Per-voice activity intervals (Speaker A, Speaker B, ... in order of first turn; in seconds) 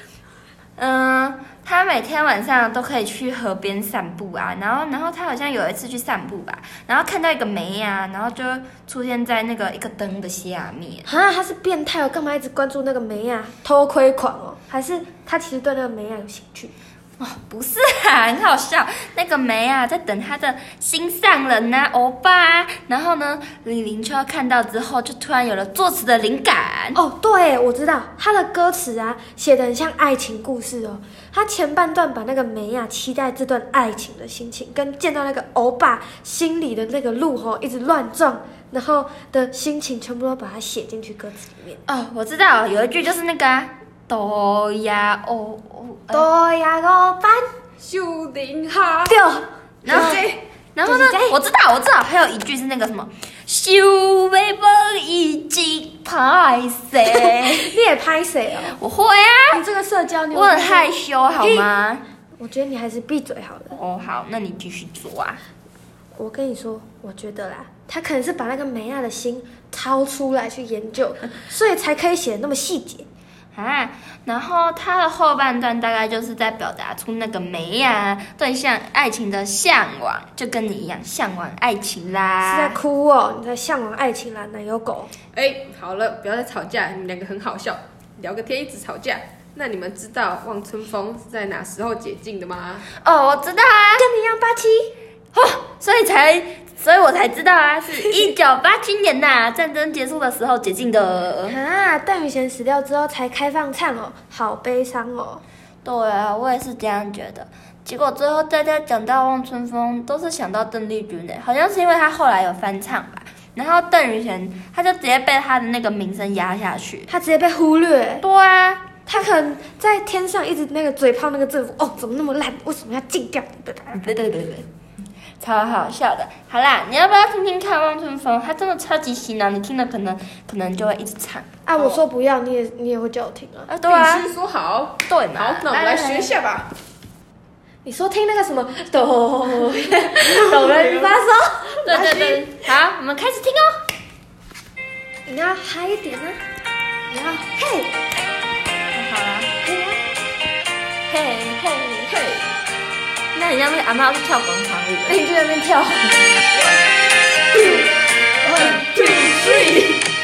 Speaker A: 0.8-11.1, 17.2-27.0, 41.9-46.3, 49.8-57.8, 58.7-59.6, 60.3-62.0, 63.7-65.4, 73.5-82.8, 93.0-94.1, 95.3-101.6, 105.8-117.1, 118.2-118.8, 123.9-124.7, 125.4-131.5, 133.7-134.3, 135.0-136.3, 140.4-141.0, 141.8-143.8, 148.9-149.5, 151.1-152.2, 153.3-156.3
Speaker B: 11.1-16.7, 26.9-41.8, 46.1-47.5, 49.1-50.2, 50.9-51.4, 57.2-58.8, 59.5-60.9, 61.4-61.7, 62.4-63.8, 66.2-73.1, 82.4-85.1, 94.0-94.9, 101.5-105.4, 117.1-118.2, 119.1-124.0, 131.7-133.7, 137.8-142.3, 145.3-146.4, 147.1-147.9, 149.6-150.0
Speaker C: 47.8-49.2, 49.9-50.4, 85.3-92.9, 133.8-136.7, 140.5-141.1, 152.1-152.5, 156.5-156.9, 157.5-157.9, 158.4-160.0